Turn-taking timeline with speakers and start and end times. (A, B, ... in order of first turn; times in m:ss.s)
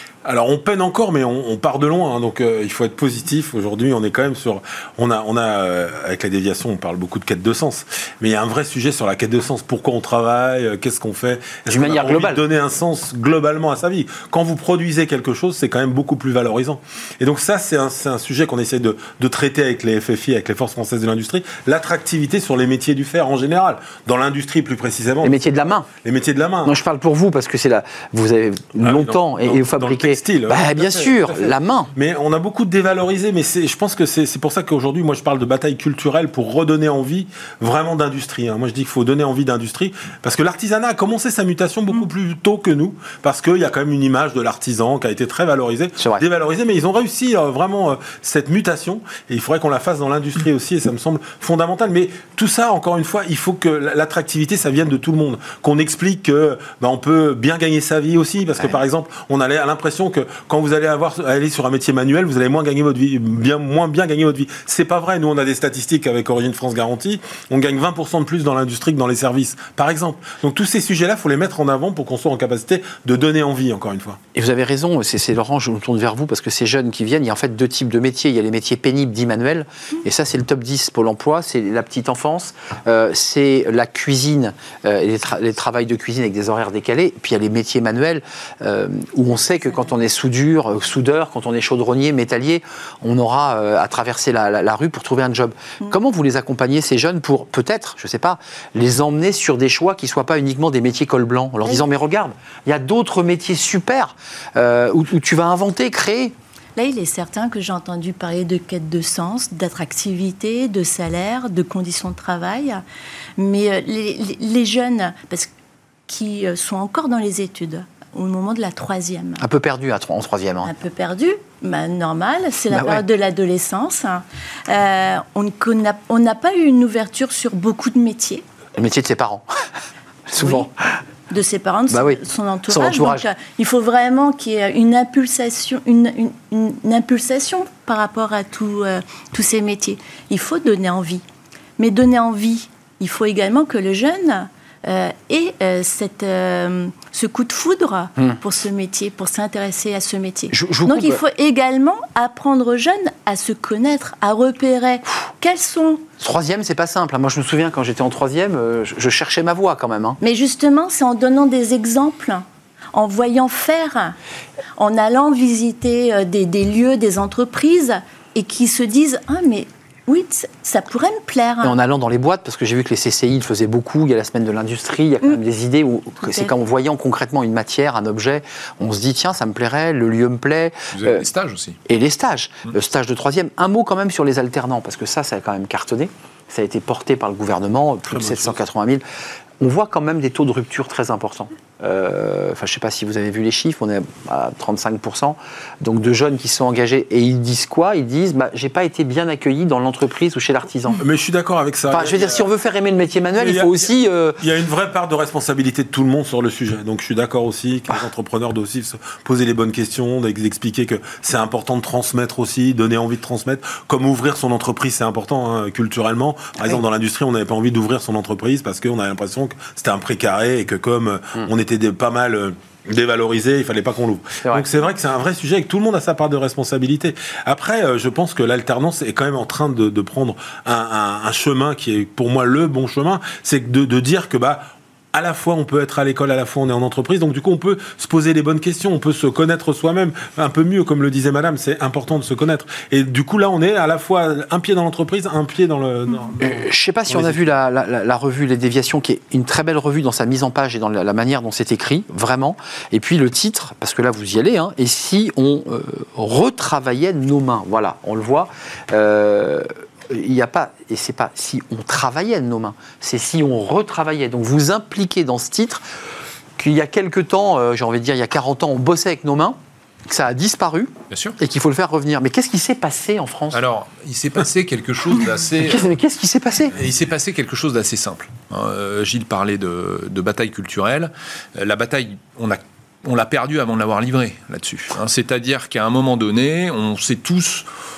0:00.2-0:25.4 A
0:11.7-0:12.4 B
0:25.2-0:25.9 B
0:26.0-0:26.7 A
0:26.6-0:31.9 B
0:28.8-1:14.2 A
0:46.0-0:46.2 B
1:14.3-1:46.3 B
1:46.8-1:52.8 C
1:53.4-1:55.5 C
1:56.1-1:59.4 C
1:59.4-2:00.7 B
2:00.6-2:08.4 C
2:02.7-2:03.0 B
2:08.8-2:09.4 B
2:10.3-2:10.7 B
2:10.4-2:10.7 C
2:11.3-2:21.2 C
2:11.9-2:13.3 B
2:21.8-2:36.1 C
2:30.5-2:31.2 B
2:36.2-2:40.2 B
2:40.2-2:44.2 C
2:44.8-2:51.8 C
2:51.6-3:01.2 B
2:56.2-2:56.5 C
3:00.9-3:01.8 D
3:01.9-3:09.0 B
3:08.1-3:08.5 A
3:09.6-3:21.0 B
3:21.0-3:22.5 A
3:21.9-3:24.4 B
3:23.4-4:07.4 A
4:06.4-4:25.8 B
4:26.6-4:29.6 B
4:30.1-4:33.6 B
4:31.1-4:31.4 D
4:33.5-4:35.9 D
4:35.6-4:36.7 B
4:36.7-4:47.7 D